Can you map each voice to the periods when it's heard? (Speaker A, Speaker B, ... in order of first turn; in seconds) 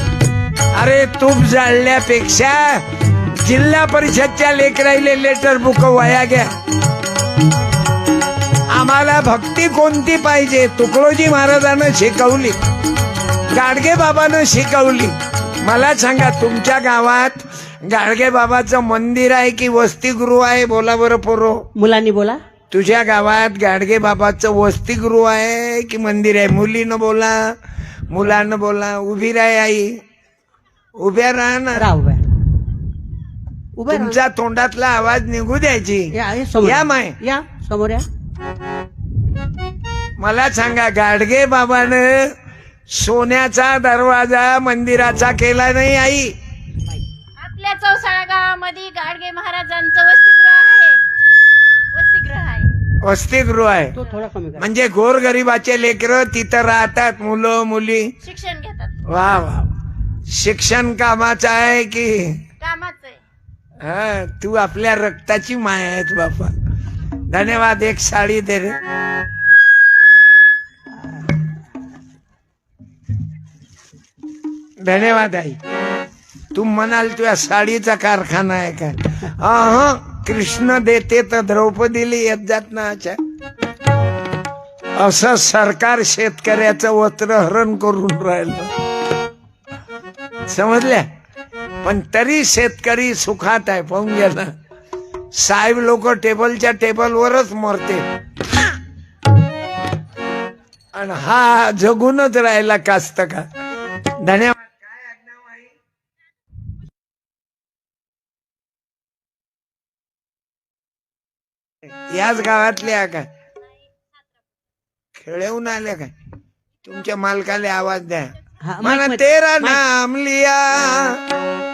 Speaker A: 0.8-6.5, 8.7-12.6, 13.5-21.7, 22.7-27.6, 28.1-30.0, 31.0-31.9, 33.9-37.2, 40.2-42.3, 42.9-46.3, 53.0-53.9, 54.6-58.2, 59.1-59.7, 60.3-62.5, 63.8-66.5, 67.3-68.8, 74.8-75.6, 76.5-83.2, 85.0-88.7, 90.5-91.1, 91.8-94.5, 95.3-98.0, 100.9-103.5, 104.2-105.7, 112.1-113.3, 115.2-116.1, 116.8-121.2
Speaker B: 21.8-22.4, 31.7-32.2, 33.8-34.2, 36.1-38.1, 54.0-54.7, 118.7-119.8
Speaker C: 47.4-51.0, 51.9-52.7, 58.2-58.9, 62.6-63.2